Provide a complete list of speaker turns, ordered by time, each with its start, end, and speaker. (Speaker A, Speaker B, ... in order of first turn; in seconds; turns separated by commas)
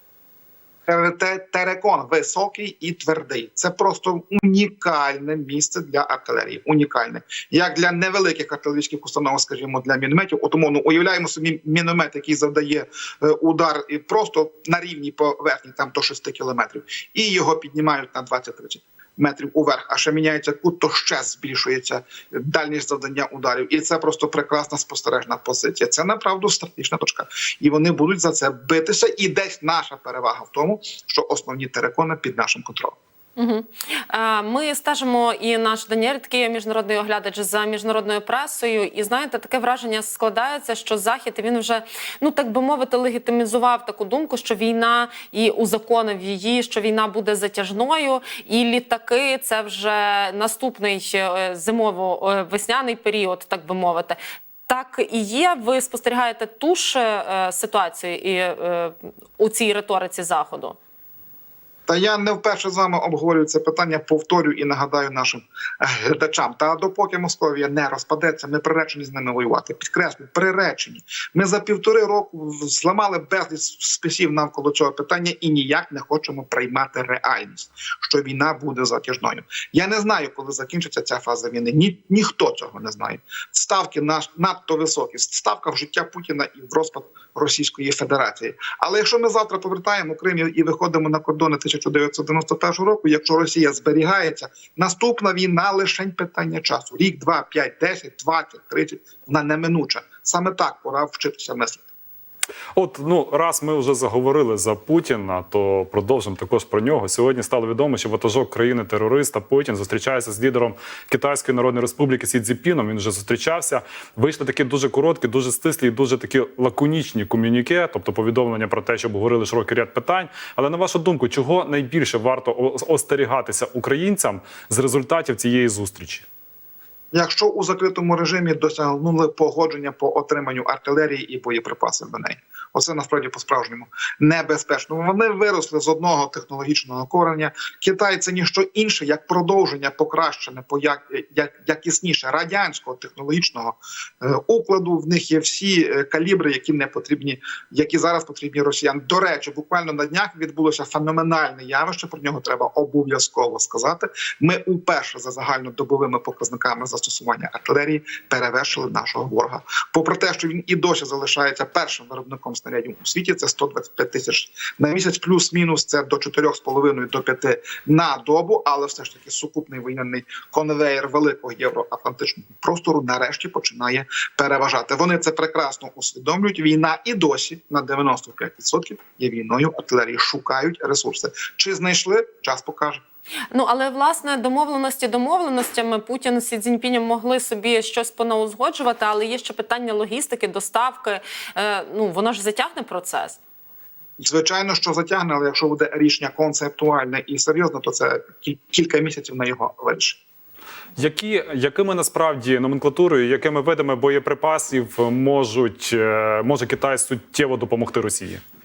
Speaker A: 0.9-33.0, Speaker B: 33.4-54.2, Speaker B: 54.7-60.8, Speaker A: 61.9-101.8, Speaker C: 102.7-126.2, Speaker A: 127.1-183.0, Speaker B: 183.5-193.4, Speaker A: 194.2-200.2, Speaker C: 201.0-208.4